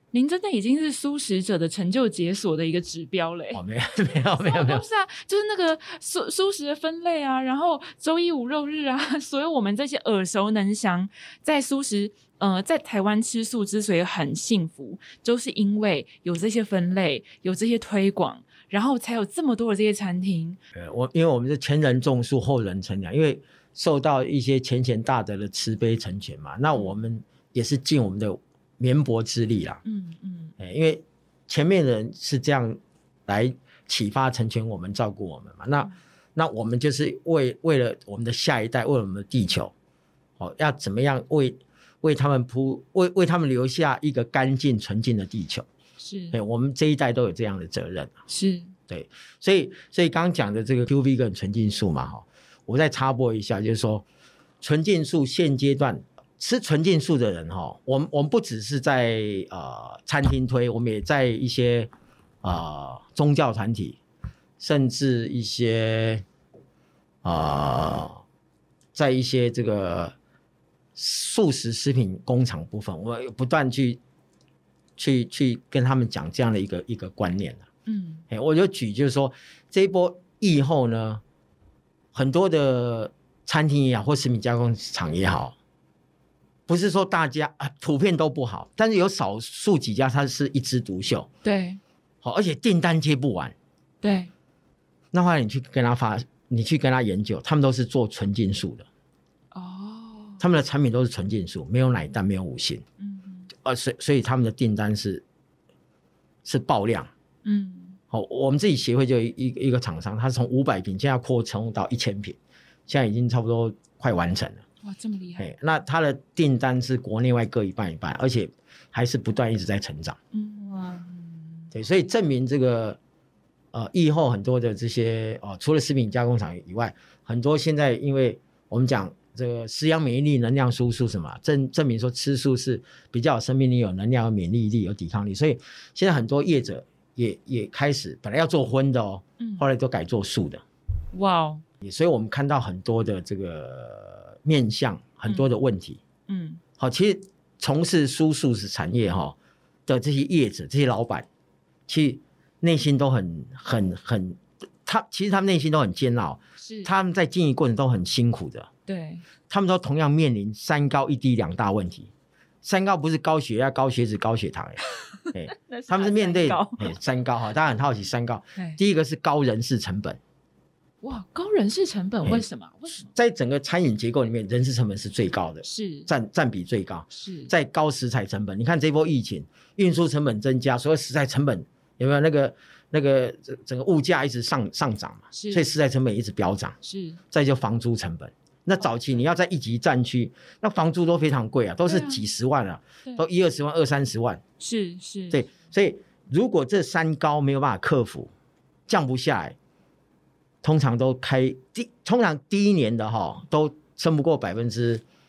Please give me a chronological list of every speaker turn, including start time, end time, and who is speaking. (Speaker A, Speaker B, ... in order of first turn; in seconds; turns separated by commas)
Speaker A: 0.1-3.6, Speaker B: 3.5-4.8, Speaker A: 4.3-20.6, Speaker B: 20.8-29.8, Speaker A: 29.9-30.6, Speaker B: 30.6-39.7, Speaker B: 40.4-45.7, Speaker A: 46.0-46.4, Speaker B: 46.3-48.1, Speaker A: 48.3-48.7, Speaker B: 48.9-54.1, Speaker B: 54.6-61.9, Speaker B: 62.4-64.0, Speaker B: 64.6-66.2, Speaker B: 67.2-68.2, Speaker B: 68.9-70.2, Speaker B: 71.0-74.0, Speaker B: 75.0-77.7, Speaker A: 77.9-78.2, Speaker B: 78.3-81.2, Speaker B: 82.1-85.5, Speaker B: 86.7-91.3, Speaker A: 91.4-91.8, Speaker B: 92.2-93.5, Speaker A: 94.0-94.3, Speaker B: 95.1-98.9, Speaker A: 99.5-100.4, Speaker B: 100.4-102.8, Speaker A: 103.0-103.5, Speaker B: 103.6-105.2, Speaker B: 106.5-107.1, Speaker A: 107.5-108.0, Speaker B: 108.1-112.4, Speaker B: 112.9-114.6, Speaker A: 114.8-115.5, Speaker B: 115.4-120.2, Speaker A: 120.3-121.7, Speaker B: 121.7-123.0, Speaker B: 123.7-140.6, Speaker A: 139.4-139.7, Speaker A: 141.1-141.6, Speaker B: 141.8-146.0, Speaker A: 146.3-146.6, Speaker B: 146.8-149.3, Speaker B: 149.9-151.3, Speaker B: 151.9-158.7, Speaker A: 156.6-156.9, Speaker A: 158.9-159.2, Speaker B: 159.5-162.1, Speaker B: 162.6-170.2, Speaker A: 165.5-166.9, Speaker A: 171.0-173.1, Speaker B: 173.0-186.8, Speaker A: 175.6-176.1, Speaker A: 177.1-177.5, Speaker A: 185.3-185.7, Speaker A: 186.8-187.2, Speaker B: 187.3-194.4, Speaker A: 191.9-192.2, Speaker A: 194.6-195.4, Speaker B: 195.3-198.3, Speaker B: 198.9-199.6, Speaker B: 200.6-205.0